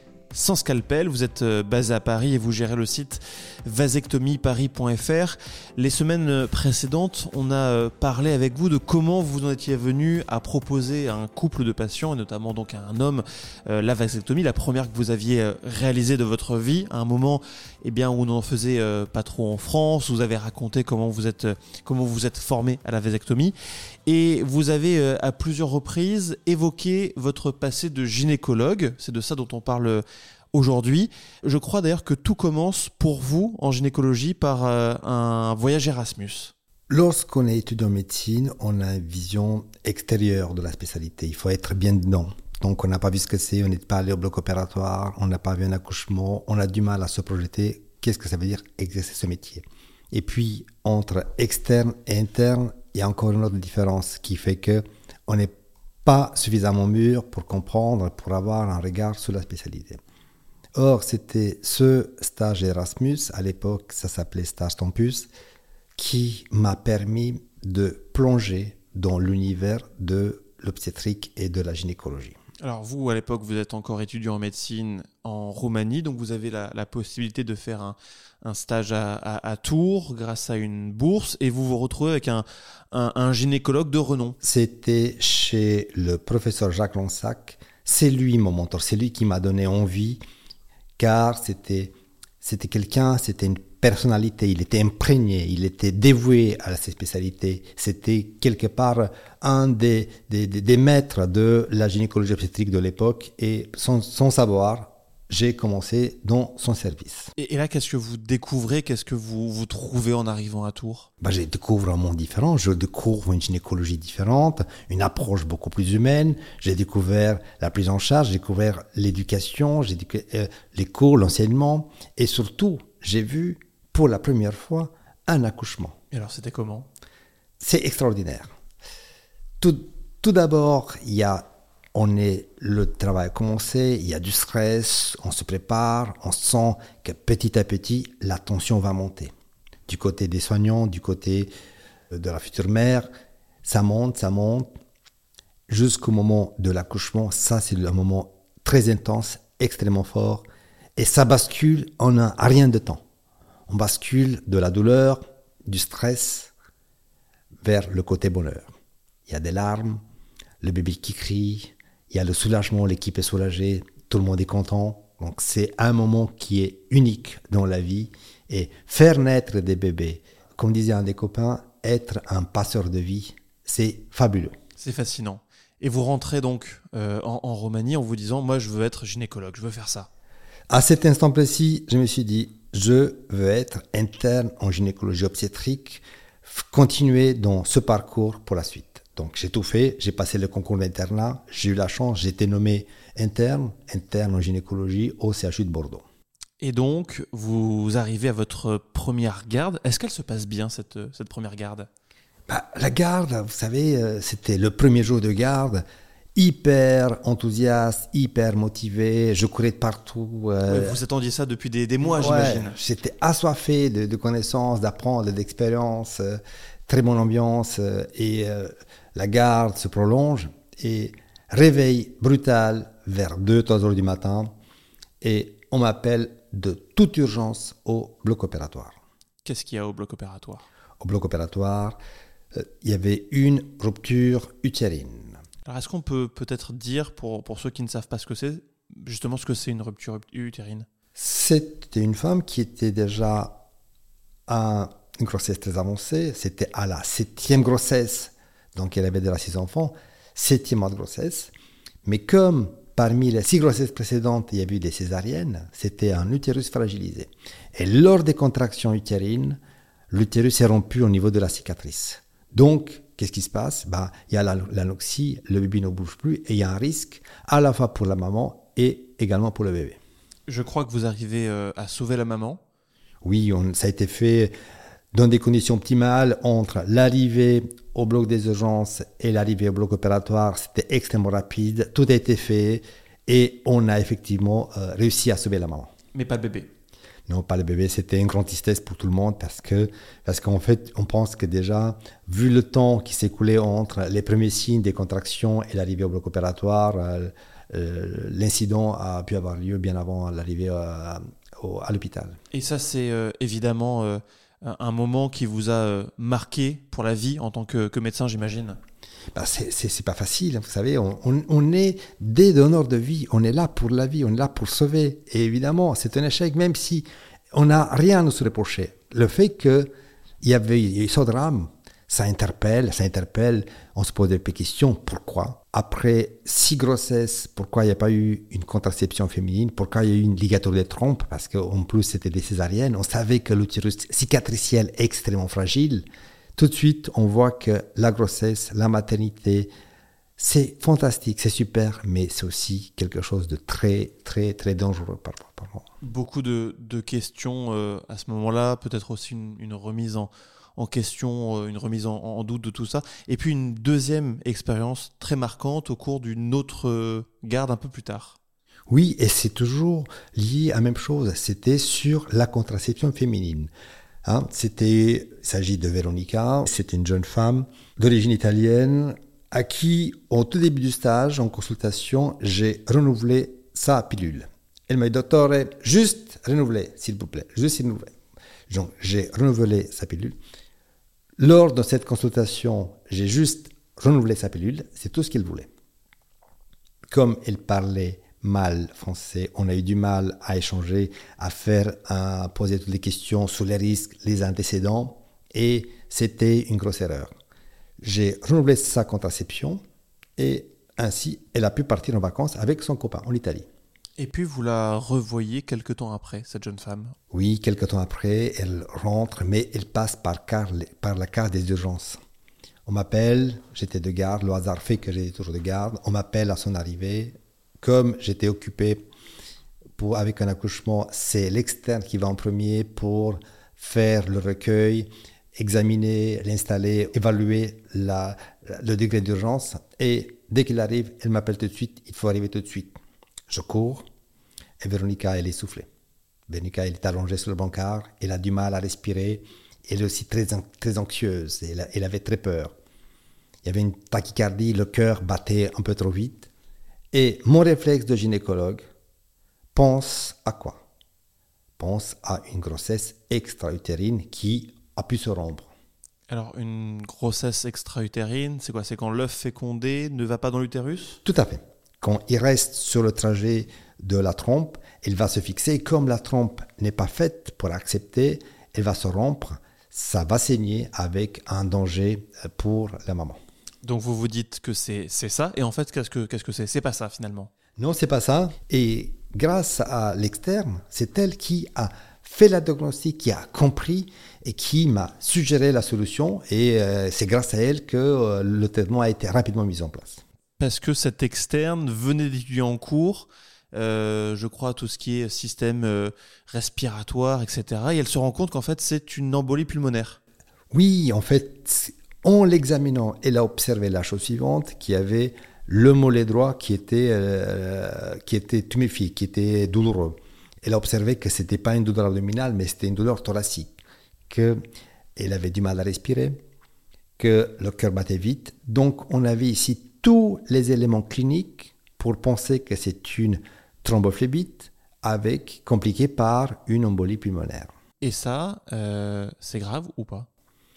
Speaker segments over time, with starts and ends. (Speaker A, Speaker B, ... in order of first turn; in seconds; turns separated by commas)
Speaker A: 0.3-23.5, Speaker A: 24.1-36.5, Speaker B: 36.9-55.5, Speaker B: 56.0-60.0, Speaker B: 60.8-65.3, Speaker B: 66.0-72.4, Speaker A: 72.6-84.4, Speaker B: 84.4-90.2, Speaker B: 91.0-107.3, Speaker A: 107.4-111.1, Speaker B: 111.2-126.0, Speaker A: 126.1-126.9, Speaker B: 127.6-128.5, Speaker B: 129.6-139.3, Speaker B: 139.9-141.5, Speaker B: 142.1-143.1, Speaker B: 143.6-144.7, Speaker B: 145.7-150.4, Speaker B: 150.9-153.0, Speaker B: 153.7-156.5, Speaker B: 157.6-158.7, Speaker B: 159.3-160.0, Speaker B: 160.6-174.5, Speaker A: 174.8-180.1, Speaker B: 180.7-196.0, Speaker A: 196.6-201.9, Speaker B: 202.5-205.8, Speaker B: 206.3-211.0, Speaker A: 210.7-212.8, Speaker B: 212.2-224.5, Speaker B: 225.2-229.0, Speaker A: 229.4-230.7, Speaker B: 231.0-232.0, Speaker B: 232.5-235.4, Speaker A: 235.7-240.8, Speaker B: 241.2-243.6, Speaker B: 244.5-251.5, Speaker B: 252.1-259.6, Speaker B: 260.1-270.0, Speaker A: 270.5-272.6, Speaker B: 273.2-274.5, Speaker B: 275.1-285.9, Speaker A: 286.1-286.7, Speaker B: 287.3-302.4, Speaker A: 302.5-308.8, Speaker B: 309.3-319.9, Speaker B: 320.4-339.7, Speaker B: 340.4-345.8, Speaker A: 346.0-358.4, Speaker B: 358.9-363.7, Speaker B: 364.2-378.1, Speaker B: 378.7-380.4, Speaker B: 381.4-385.7, Speaker B: 387.1-397.3, Speaker B: 398.0-399.8, Speaker B: 400.4-403.6, Speaker A: 404.2-407.1, Speaker B: 407.3-412.2, Speaker B: 412.9-419.1, Speaker B: 420.0-433.0, Speaker B: 433.5-434.0, Speaker B: 434.8-435.9, Speaker B: 436.5-442.8, Speaker B: 443.6-446.5, Speaker B: 447.1-448.8, Speaker B: 449.8-450.8, Speaker B: 451.8-455.7, Speaker A: 456.3-461.2, Speaker B: 461.2-473.4, Speaker A: 473.8-477.5, Speaker B: 477.8-490.2, Speaker A: 490.6-500.2, Speaker B: 500.7-513.8, Speaker B: 514.3-514.6, Speaker B: 515.2-516.4, Speaker B: 517.2-527.7, Speaker A: 528.0-530.3